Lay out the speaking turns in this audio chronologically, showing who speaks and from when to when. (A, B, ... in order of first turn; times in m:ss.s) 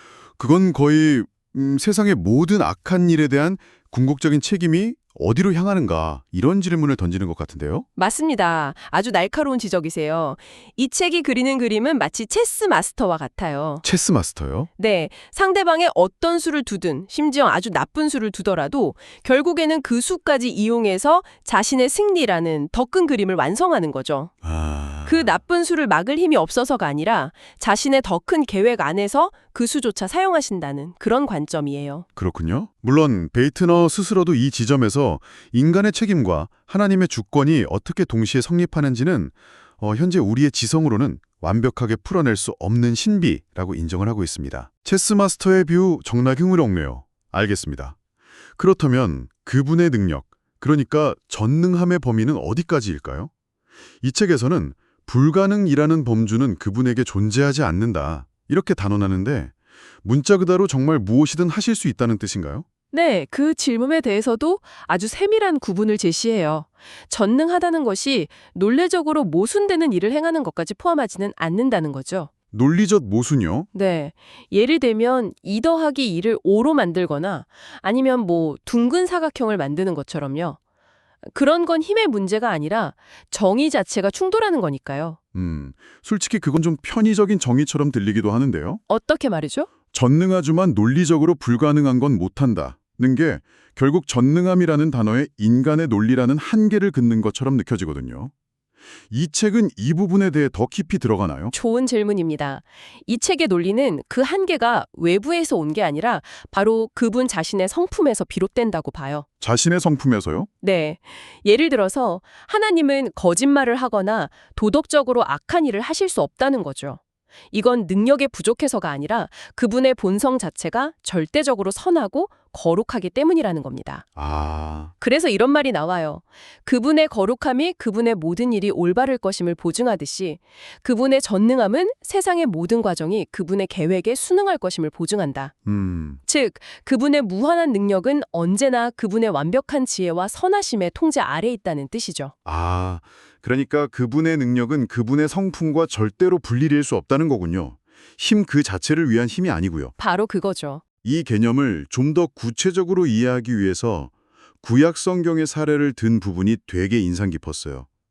0:00.4-0:07.9 A
0:08.0-0:13.8 B
0:13.8-0:14.7 A
0:14.8-0:24.3 B
0:24.4-0:25.4 A
0:25.1-0:32.0 B
0:32.2-0:48.0 A
0:48.6-0:53.3 A
0:54.0-1:02.6 A
1:02.9-1:12.3 B
1:12.5-1:13.7 A
1:13.7-1:20.6 B
1:21.2-1:25.2 B
1:25.3-1:28.8 A
1:28.9-1:29.7 B
1:29.9-1:38.3 A
1:39.1-1:41.5 A
1:41.5-1:49.2 B
1:49.4-1:50.5 A
1:50.6-1:57.0 B
1:57.5-2:04.0 B
2:04.2-2:04.9 A
2:05.0-2:15.5 B
2:15.7-2:16.2 A
2:16.3-2:22.3 B
2:22.5-2:29.9 A
2:30.0-2:30.8 B
2:31.0-2:37.9 A